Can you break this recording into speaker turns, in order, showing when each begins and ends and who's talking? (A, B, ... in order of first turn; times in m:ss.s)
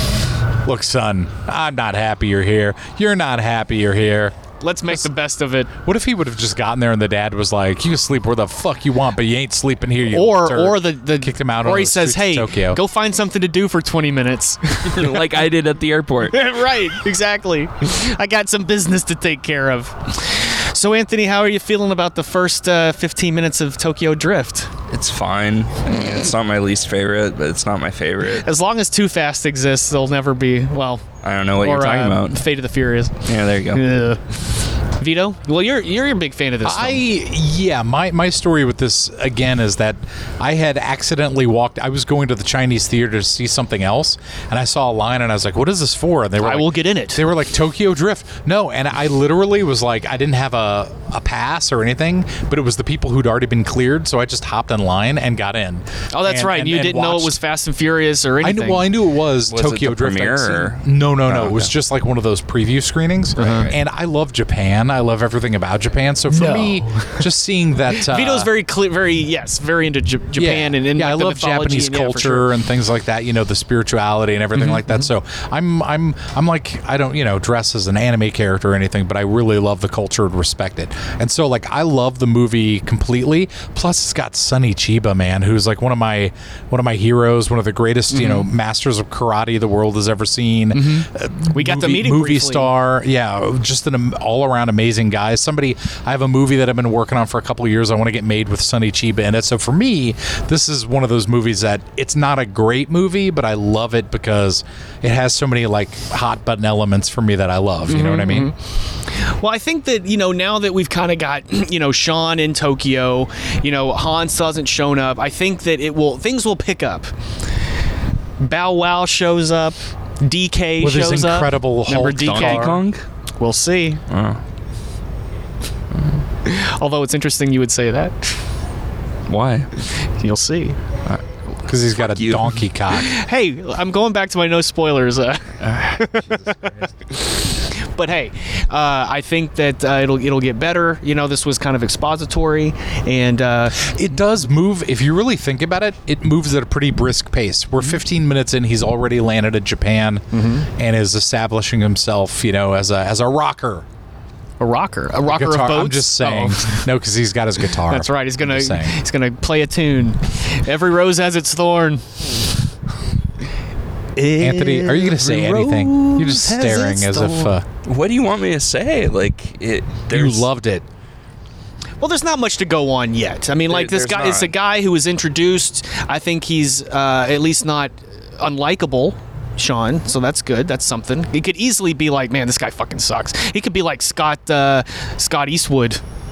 0:00.6-0:04.4 A
0:04.6-0:05.7 B
0:05.8-0:12.8 A
0:10.1-0:15.2 B
0:14.9-0:16.4 C
0:16.3-0:24.7 B
0:24.9-0:28.5 C
0:28.3-0:31.0 B
0:31.2-0:32.4 C
0:31.6-0:34.4 B
0:33.2-0:33.9 C
0:35.0-0:37.0 B
0:36.6-0:57.4 A
0:46.4-0:47.2 B
0:56.1-0:58.8 B
0:58.4-1:08.5 A
0:59.5-1:01.7 C
1:03.4-1:03.7 B
1:06.3-1:07.2 B
1:07.9-1:12.5 B
1:10.4-1:48.5 A
1:28.1-1:28.5 B
1:30.7-1:32.7 B
1:47.9-1:57.1 B
1:58.4-2:02.7 B
2:00.8-2:02.8 A
2:02.2-2:03.0 C
2:03.4-2:04.0 B
2:04.1-2:04.4 C
2:06.4-2:08.4 B
2:09.3-2:09.7 C
2:10.0-2:10.8 B
2:11.6-2:13.2 A
2:12.0-2:12.6 C
2:12.9-2:23.9 B
2:23.8-2:33.8 A
2:30.3-2:30.7 B
2:34.6-2:36.8 B
2:35.3-2:39.0 A
2:37.8-2:42.2 B
2:44.2-2:47.5 B
2:44.4-2:47.6 A
2:47.8-2:50.4 C
2:50.1-2:50.8 A
2:52.0-3:06.0 B
2:53.7-2:54.5 C